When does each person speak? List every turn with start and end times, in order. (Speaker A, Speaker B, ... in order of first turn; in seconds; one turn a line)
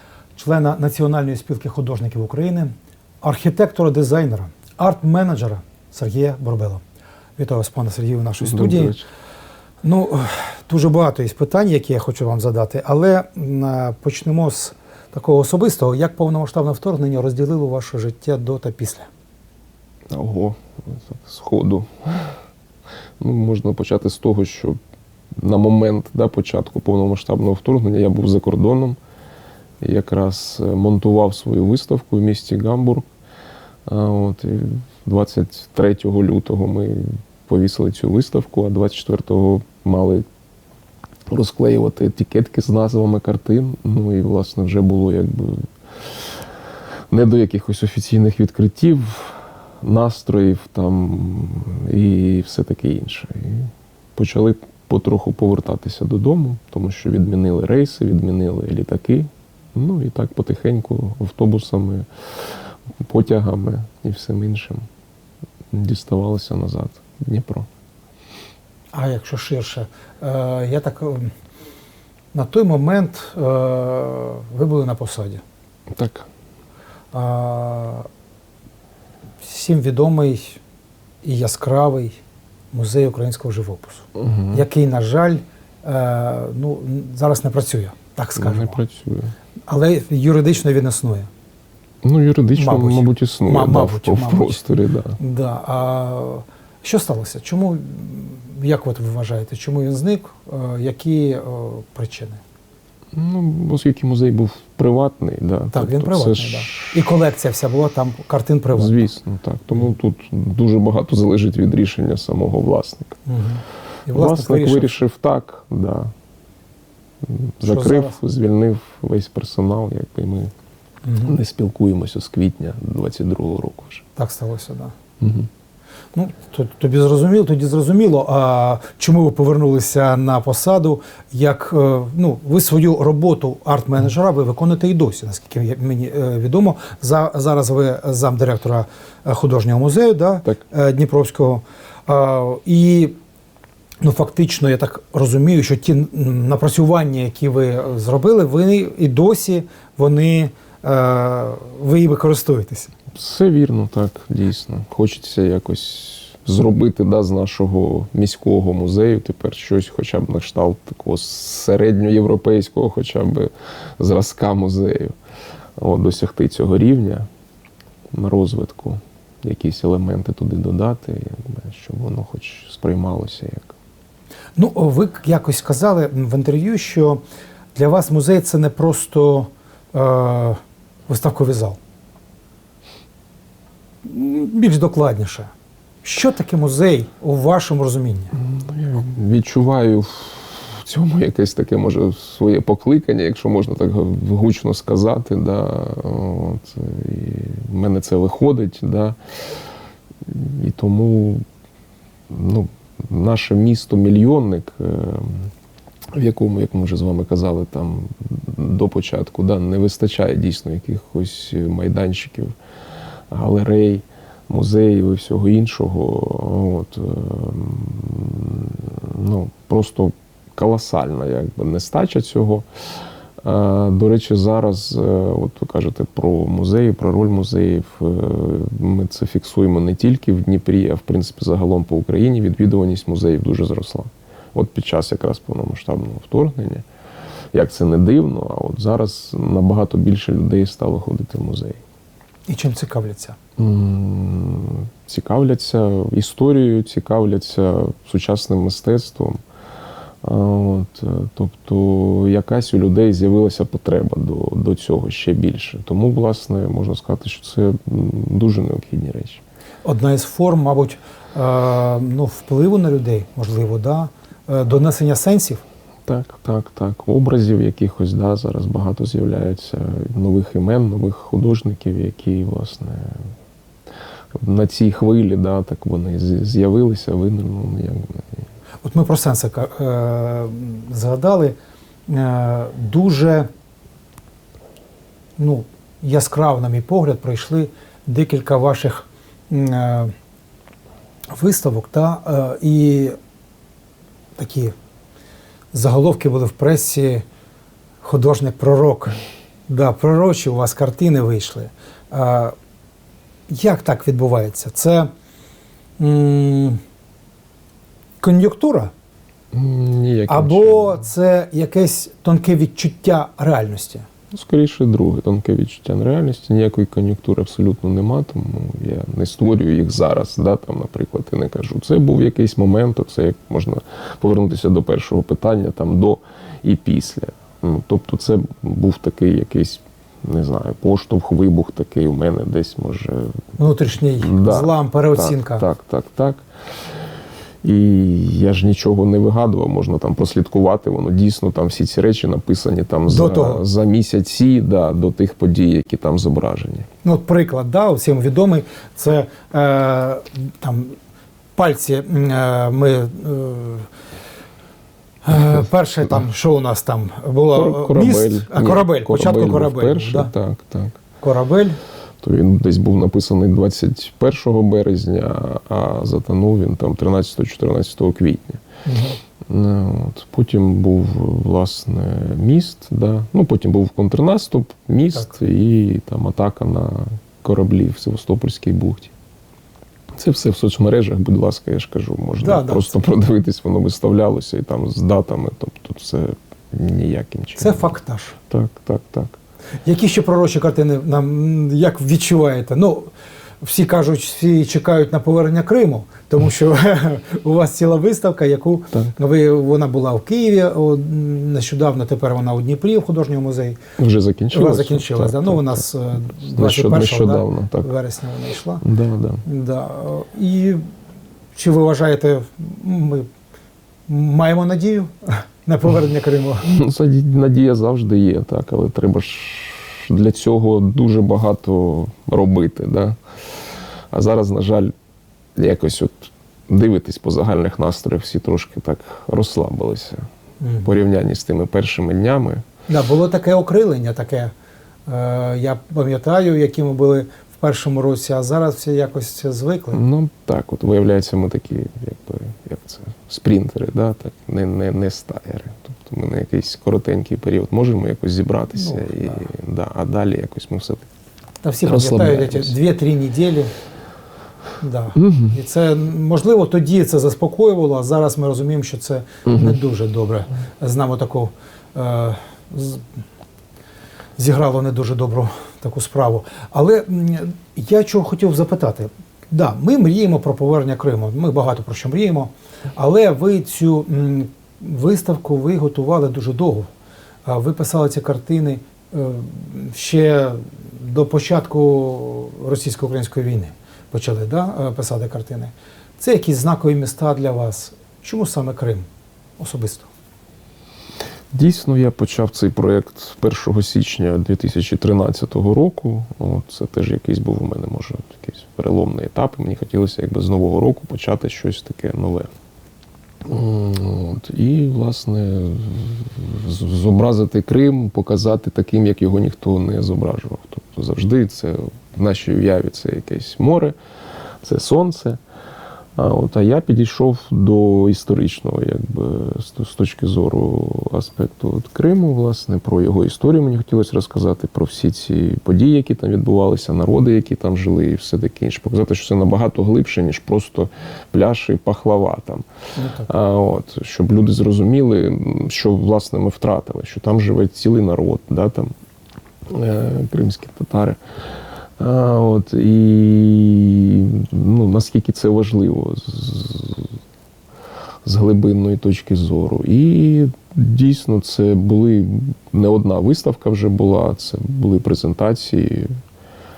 Speaker A: 0.3-6.8
Speaker A: 7.4-9.0
Speaker B: 8.4-9.1
Speaker A: 9.8-19.1
Speaker B: 20.1-22.4
Speaker B: 23.2-24.8
Speaker B: 25.4-29.0
Speaker B: 29.8-33.0
Speaker B: 33.9-40.2
Speaker B: 41.3-45.7
Speaker B: 47.1-62.1
Speaker B: 63.0-64.8
Speaker B: 65.7-67.7
Speaker A: 68.9-71.3
Speaker A: 72.3-75.4
Speaker B: 75.9-76.3
Speaker A: 77.1-78.1
Speaker A: 79.4-80.6
Speaker A: 81.2-82.2
Speaker A: 82.7-88.8
Speaker B: 84.2-84.6
Speaker B: 88.4-89.3
Speaker A: 89.7-91.3
Speaker B: 92.0-95.2
Speaker A: 92.5-94.6
Speaker A: 95.2-102.4
Speaker B: 103.1-107.0
Speaker A: 105.7-109.0
Speaker B: 108.7-113.2
Speaker A: 113.2-115.0
Speaker B: 114.1-116.1
Speaker B: 117.2-120.5
Speaker A: 117.6-118.2
Speaker A: 121.0-121.3
Speaker B: 121.2-124.0
Speaker A: 124.2-124.9
Speaker B: 125.2-125.5
Speaker A: 126.1-143.2
Speaker A: 144.0-152.9
Speaker B: 153.1-165.1
Speaker B: 165.8-167.3
Speaker B: 168.1-173.7
Speaker A: 174.6-177.2
Speaker A: 177.7-181.8
Speaker A: 184.0-185.5
Speaker A: 186.0-188.3
Speaker B: 188.3-199.2
Speaker B: 200.2-201.4
Speaker B: 202.3-205.5
Speaker B: 206.1-212.5
Speaker B: 213.3-222.7
Speaker B: 223.4-236.8
Speaker B: 237.5-241.8
Speaker A: 242.5-243.4
Speaker B: 243.6-249.4
Speaker B: 250.2-259.4
Speaker A: 259.8-265.6
Speaker B: 266.1-273.2
Speaker B: 274.4-278.4
Speaker A: 278.8-281.5
Speaker A: 282.1-283.5
Speaker A: 285.4-290.1
Speaker A: 291.3-293.1
Speaker A: 294.4-294.7
Speaker A: 295.7-297.2
Speaker A: 298.0-302.5
Speaker A: 303.5-305.1
Speaker A: 306.0-306.8
Speaker A: 308.2-308.9
Speaker B: 309.5-311.0
Speaker A: 310.3-314.0
Speaker B: 314.3-333.5
Speaker A: 333.6-335.7
Speaker B: 334.2-336.4
Speaker B: 337.6-346.9
Speaker A: 343.1-343.6
Speaker A: 347.0-350.9
Speaker A: 351.6-353.9
Speaker A: 355.2-360.3
Speaker B: 357.5-361.0
Speaker A: 361.2-361.8
Speaker B: 362.2-368.6
Speaker A: 368.9-369.2
Speaker B: 369.5-379.1
Speaker B: 380.1-387.9
Speaker A: 382.4-383.0
Speaker A: 387.6-388.4
Speaker B: 388.5-389.4
Speaker A: 389.8-393.1
Speaker A: 393.6-403.8
Speaker B: 404.0-407.9
Speaker A: 404.5-408.8
Speaker B: 408.8-409.4
Speaker A: 409.4-410.8
Speaker A: 411.5-413.3
Speaker A: 414.1-416.7
Speaker B: 416.6-423.2
Speaker B: 424.1-424.9
Speaker B: 425.6-430.2
Speaker A: 430.6-430.9
Speaker B: 430.8-432.6
Speaker A: 432.9-434.5
Speaker A: 435.1-440.0
Speaker B: 439.9-451.1
Speaker A: 448.7-449.4
Speaker A: 451.6-453.7
Speaker B: 451.8-452.8
Speaker A: 454.8-463.1
Speaker B: 455.2-455.6
Speaker B: 459.4-459.8
Speaker A: 464.4-476.9
Speaker A: 477.4-489.1
Speaker A: 489.6-490.1
Speaker B: 491.5-502.5
Speaker B: 503.4-514.0
Speaker B: 514.6-515.4
Speaker B: 516.1-532.6
Speaker A: 533.0-533.3
Speaker B: 533.3-538.9
Speaker B: 539.7-541.2
Speaker B: 542.0-547.1
Speaker B: 548.2-556.1